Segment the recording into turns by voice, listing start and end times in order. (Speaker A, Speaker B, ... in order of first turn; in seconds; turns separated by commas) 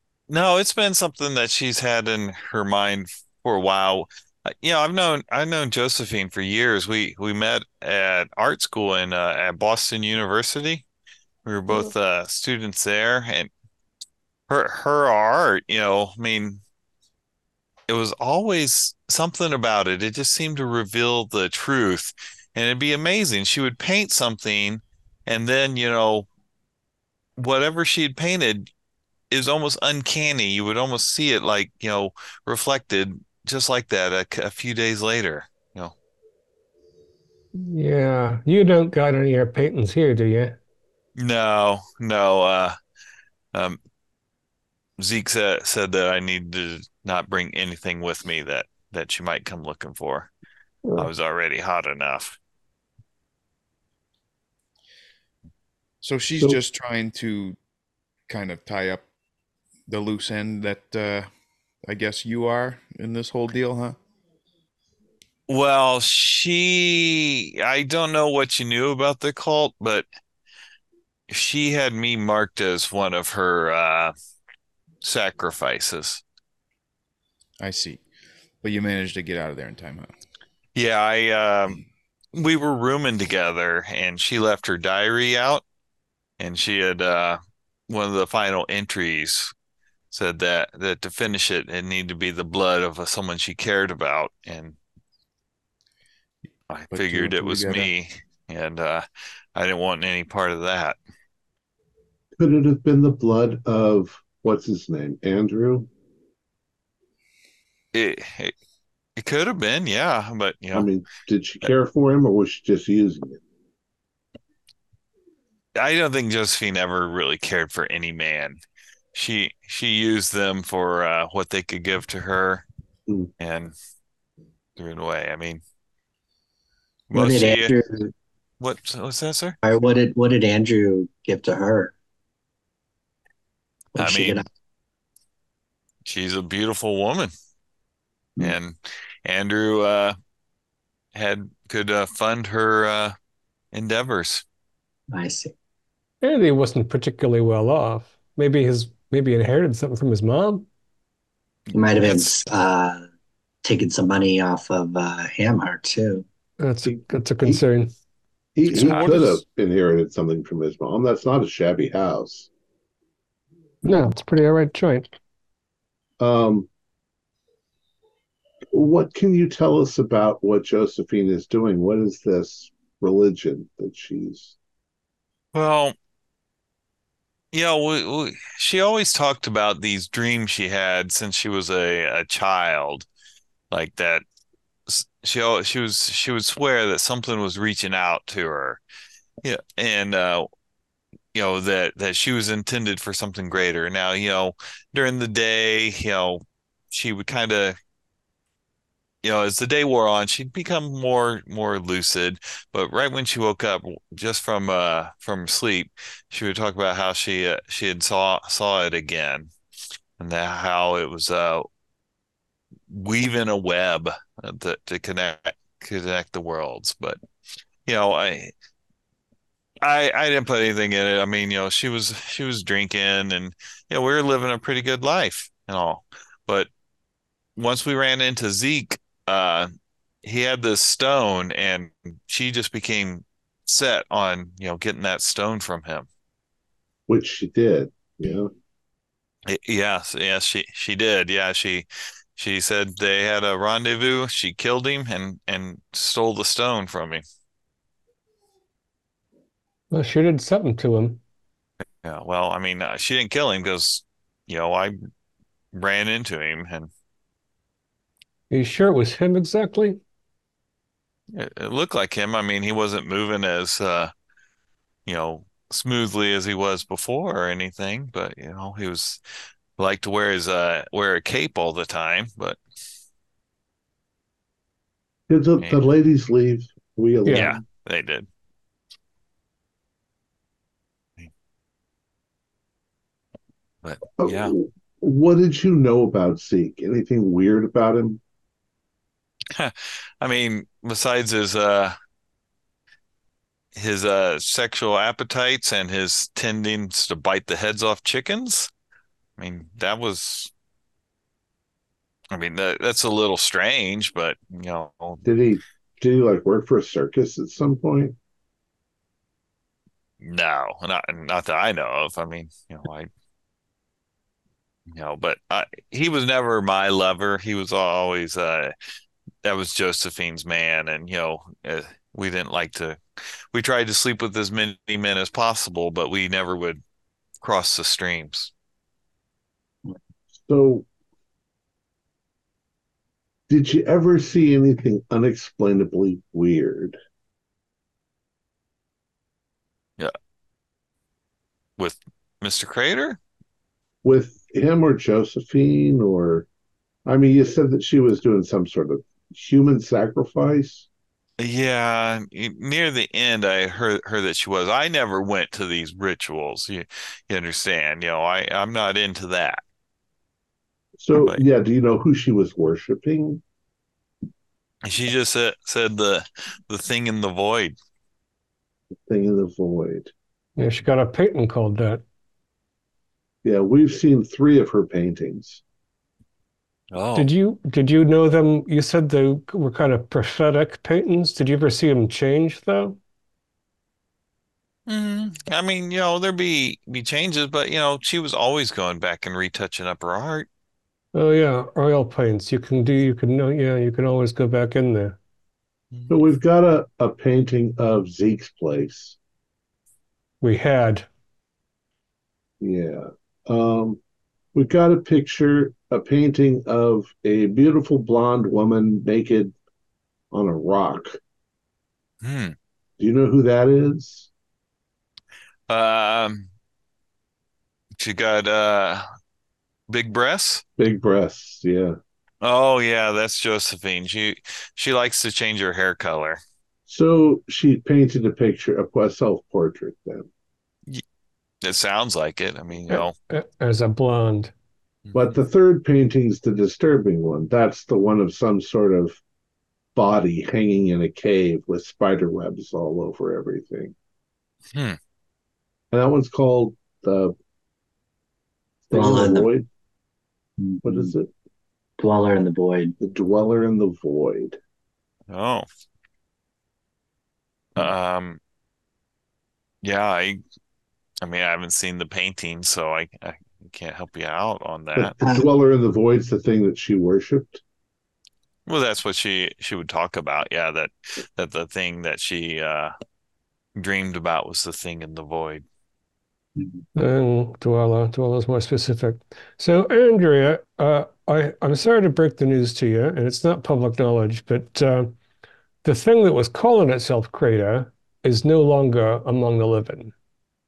Speaker A: 0.3-10.8, Speaker A: 11.4-13.5, Speaker A: 14.5-16.6, Speaker A: 17.9-26.2, Speaker A: 27.4-28.7, Speaker A: 29.3-35.9, Speaker B: 37.5-40.6, Speaker A: 41.2-42.8, Speaker A: 45.0-50.3, Speaker A: 51.0-52.4, Speaker C: 56.0-57.6, Speaker C: 58.3-59.0, Speaker C: 59.9-61.3, Speaker C: 61.8-64.0, Speaker A: 65.5-70.0, Speaker A: 71.3-74.1, Speaker A: 75.0-76.2, Speaker C: 77.6-78.0, Speaker C: 78.6-80.1, Speaker A: 80.8-81.8, Speaker A: 82.3-85.6, Speaker A: 86.4-89.5, Speaker A: 90.1-94.8, Speaker A: 96.7-101.0, Speaker C: 96.9-97.9, Speaker D: 102.4-105.9, Speaker A: 107.9-108.5, Speaker A: 109.2-110.9, Speaker D: 110.7-113.4, Speaker A: 115.8-118.6, Speaker A: 119.1-122.6, Speaker A: 123.4-123.8, Speaker A: 124.8-125.6, Speaker A: 127.1-127.7, Speaker E: 127.1-128.1, Speaker A: 128.6-129.6, Speaker E: 129.6-131.9, Speaker E: 134.0-134.4, Speaker A: 134.0-134.4, Speaker A: 136.0-137.3, Speaker A: 138.4-140.2, Speaker A: 141.1-143.2, Speaker A: 143.7-144.4, Speaker E: 145.1-145.5, Speaker B: 146.2-150.7, Speaker A: 151.7-152.5, Speaker E: 151.8-153.1, Speaker E: 153.6-156.2, Speaker B: 156.6-157.9, Speaker D: 156.9-157.6, Speaker D: 158.6-162.5, Speaker C: 158.7-159.4, Speaker A: 158.7-159.1, Speaker B: 163.8-165.1, Speaker D: 166.2-166.7, Speaker D: 168.7-174.6, Speaker A: 175.5-175.9, Speaker A: 177.5-183.1, Speaker A: 183.7-184.2, Speaker A: 184.9-188.8, Speaker A: 189.4-190.5, Speaker A: 191.3-197.8, Speaker A: 199.2-209.5, Speaker A: 210.2-211.7, Speaker A: 212.9-217.2, Speaker A: 217.9-218.5, Speaker A: 219.8-226.7, Speaker A: 227.6-229.7, Speaker A: 230.2-236.1, Speaker D: 237.1-238.5, Speaker A: 239.5-247.2, Speaker B: 249.9-251.2, Speaker A: 252.0-255.0, Speaker A: 255.7-256.9, Speaker B: 258.5-260.0, Speaker A: 261.3-264.1, Speaker A: 265.1-269.2, Speaker A: 269.8-272.6, Speaker D: 275.3-277.6, Speaker B: 277.2-277.5, Speaker A: 277.3-278.3, Speaker A: 283.8-284.5, Speaker D: 284.2-288.2, Speaker A: 289.5-292.0, Speaker A: 293.8-298.7, Speaker A: 299.4-300.5, Speaker A: 302.3-305.2, Speaker D: 305.2-308.2, Speaker A: 310.2-313.1, Speaker A: 314.9-318.7, Speaker A: 319.4-323.0, Speaker A: 323.5-326.8, Speaker A: 327.4-328.5, Speaker D: 330.4-330.9, Speaker D: 333.5-337.0, Speaker A: 341.8-343.2, Speaker D: 344.0-346.5, Speaker D: 347.1-350.9, Speaker A: 351.4-359.6, Speaker D: 361.0-363.4, Speaker A: 361.1-361.4, Speaker A: 364.8-367.8, Speaker D: 369.1-370.1, Speaker B: 370.6-372.0, Speaker D: 373.4-375.6, Speaker A: 376.9-377.3, Speaker B: 377.1-383.0, Speaker A: 384.9-390.5, Speaker B: 391.1-395.2, Speaker D: 396.1-399.2, Speaker B: 400.4-401.1, Speaker D: 402.6-404.0, Speaker D: 404.5-409.5, Speaker D: 410.3-411.2, Speaker A: 412.2-412.5, Speaker D: 413.0-414.3, Speaker A: 415.7-416.5, Speaker A: 418.0-419.0, Speaker A: 419.9-420.6, Speaker D: 420.8-422.0, Speaker A: 422.4-426.4, Speaker D: 426.9-430.3, Speaker A: 431.6-433.1, Speaker B: 432.9-434.5, Speaker D: 435.1-439.2, Speaker D: 439.9-443.9, Speaker D: 445.9-447.4, Speaker D: 448.9-449.7, Speaker E: 448.9-449.5, Speaker E: 450.6-451.1, Speaker D: 450.8-451.3, Speaker E: 452.0-453.0, Speaker D: 453.0-454.6, Speaker A: 455.3-455.6, Speaker A: 457.8-458.4, Speaker A: 459.8-460.4, Speaker A: 461.2-465.2, Speaker D: 465.0-467.6, Speaker A: 468.7-472.9, Speaker A: 473.8-475.6, Speaker B: 476.9-485.1, Speaker B: 485.8-490.1